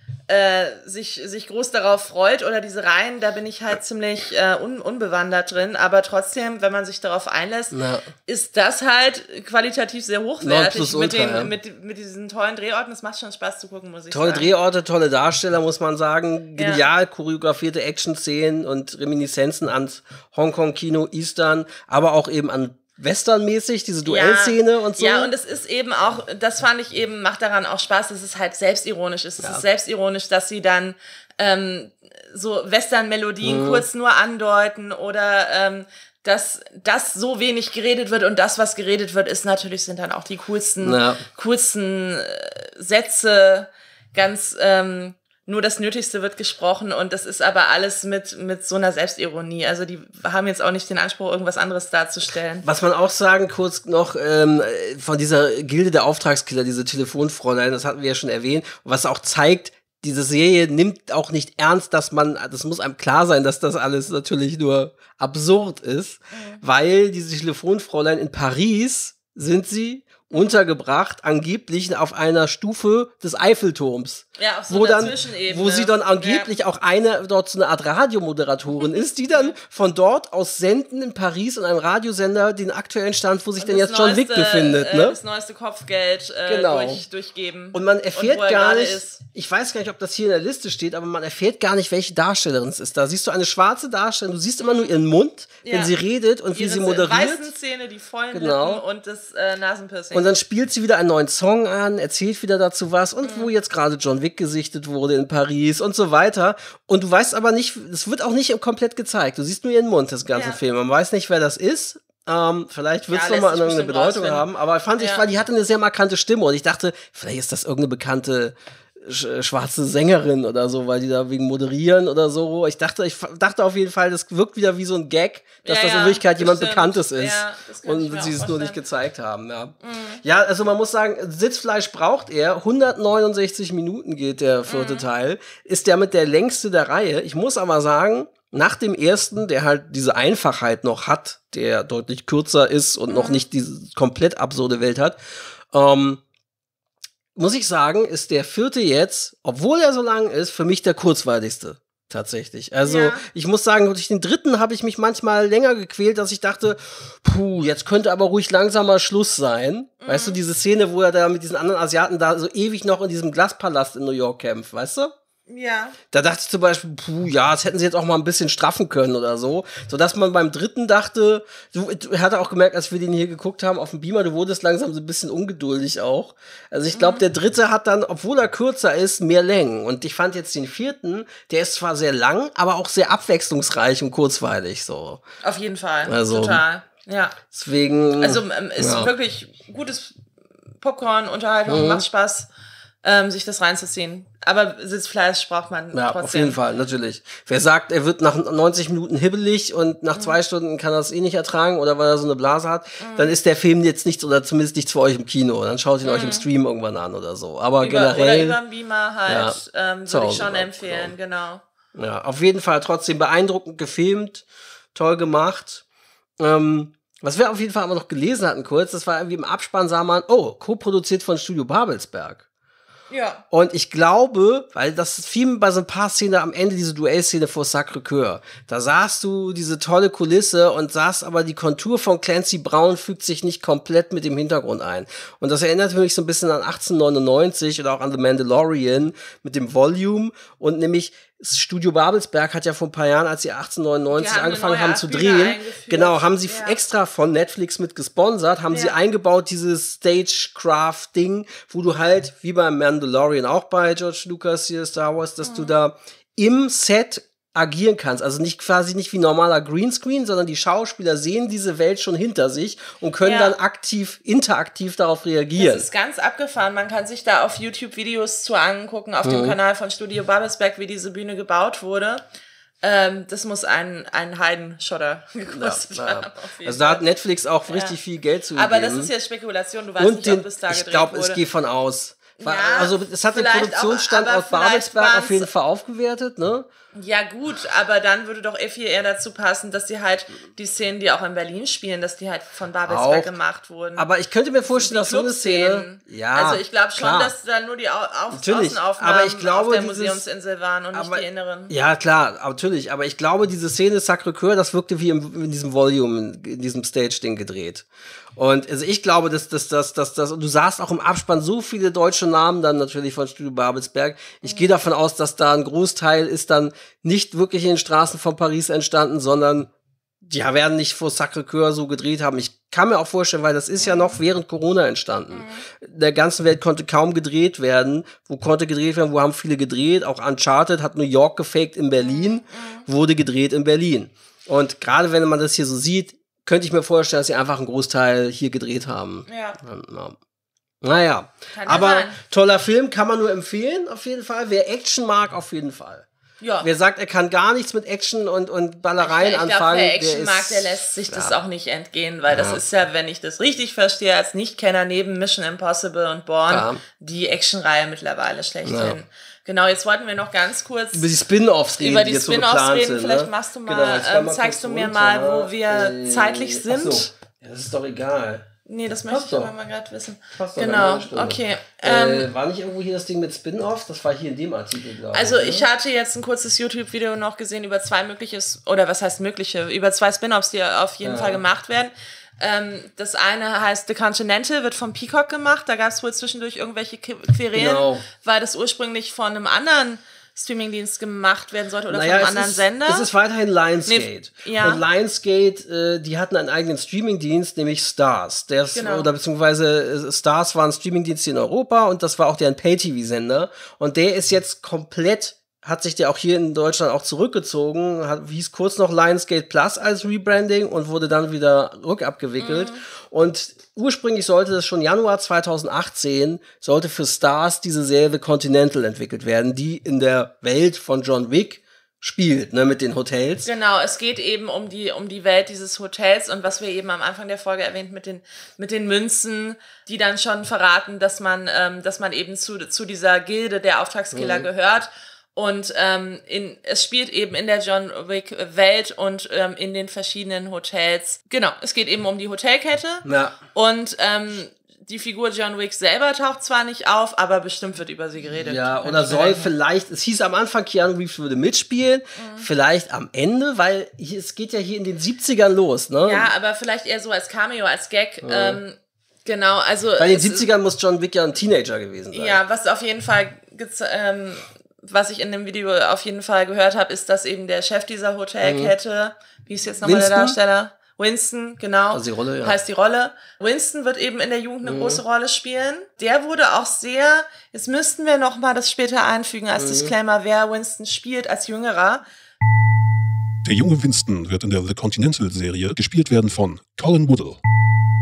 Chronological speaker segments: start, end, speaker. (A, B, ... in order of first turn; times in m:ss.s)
0:00.3-0:14.5 A
0:07.7-0:08.0 B
0:10.4-0:11.5 B
0:14.1-0:25.3 B
0:16.6-0:16.8 A
0:24.0-0:52.7 A
0:33.4-0:33.9 B
0:40.8-0:41.2 B
0:52.6-1:25.2 B
1:06.3-1:06.6 A
1:10.3-1:10.6 A
1:14.4-1:16.5 A
1:18.8-1:19.6 A
1:23.6-1:29.2 A
1:26.5-1:27.0 B
1:27.7-1:37.5 B
1:34.6-1:34.9 A
1:35.6-1:35.9 A
1:36.5-1:40.3 A
1:38.3-1:38.8 B
1:40.1-2:25.2 B
1:43.2-1:43.5 A
1:50.3-1:50.6 A
1:53.1-1:54.4 A
1:55.0-1:55.2 A
2:05.6-2:08.8 A
2:09.8-2:10.2 A
2:14.7-2:15.0 A
2:23.1-2:23.4 A
2:25.7-2:26.2 B
2:27.3-2:45.1 B
2:32.8-2:33.2 A
2:40.0-2:40.4 A
2:45.5-2:46.0 A
2:46.1-3:05.2 B
2:56.9-2:57.2 A
3:05.4-3:07.4 A
3:06.0-3:06.6 B
3:07.5-3:09.1 B
3:08.2-3:10.2 A
3:10.8-3:12.5 A
3:11.7-3:12.0 B
3:13.0-3:16.6 A
3:15.9-3:28.6 B
3:23.0-3:23.3 A
3:26.0-3:26.4 A
3:27.8-3:31.6 A
3:29.3-3:31.1 B
3:32.0-3:35.8 B
3:36.4-3:42.4 B
3:43.1-3:43.4 A
3:43.5-4:25.9 B
4:04.1-4:06.8 A
4:15.4-4:15.7 A
4:23.2-4:23.5 A
4:25.6-4:32.2 A
4:29.2-4:29.6 B
4:32.8-4:37.0 A
4:35.5-4:39.1 B
4:37.7-4:38.0 A
4:38.6-4:41.4 A
4:40.0-4:46.7 B
4:42.4-4:45.5 A
4:47.0-4:54.1 A
4:52.9-4:53.3 B
4:54.0-4:57.3 B
4:54.6-5:01.7 A
4:58.3-5:00.2 B
5:00.9-5:19.7 B
5:20.2-5:40.2 B
5:23.8-5:24.2 A
5:25.3-5:25.6 A
5:32.0-5:32.9 A
5:39.3-5:39.6 A
5:40.8-5:46.0 B
5:41.5-5:42.2 A
5:46.4-5:46.7 A
5:46.6-5:51.3 B
5:49.0-6:01.1 A
5:52.3-5:52.6 B
5:56.5-5:56.8 B
5:58.6-5:59.0 B
6:00.9-6:08.5 B
6:01.8-6:07.1 A
6:08.7-6:12.3 A
6:09.0-6:09.5 B
6:10.3-6:15.7 B
6:15.1-6:33.1 A
6:21.0-6:21.4 B
6:27.5-6:28.0 B
6:31.9-7:03.5 B
6:33.9-6:34.8 A
6:38.7-6:39.1 A
6:52.4-6:52.8 A
7:03.4-7:29.5 A
7:14.1-7:14.5 B
7:23.0-7:23.4 B
7:28.4-7:36.3 B
7:32.2-7:32.5 A
7:36.0-7:40.4 A
7:38.2-7:38.6 B
7:40.0-7:42.4 B
7:42.1-8:02.0 A
7:48.4-7:48.7 B
7:49.8-7:50.4 B
7:51.9-7:52.6 B
7:54.6-7:55.0 B
7:59.6-7:59.9 B
8:03.4-8:07.4 C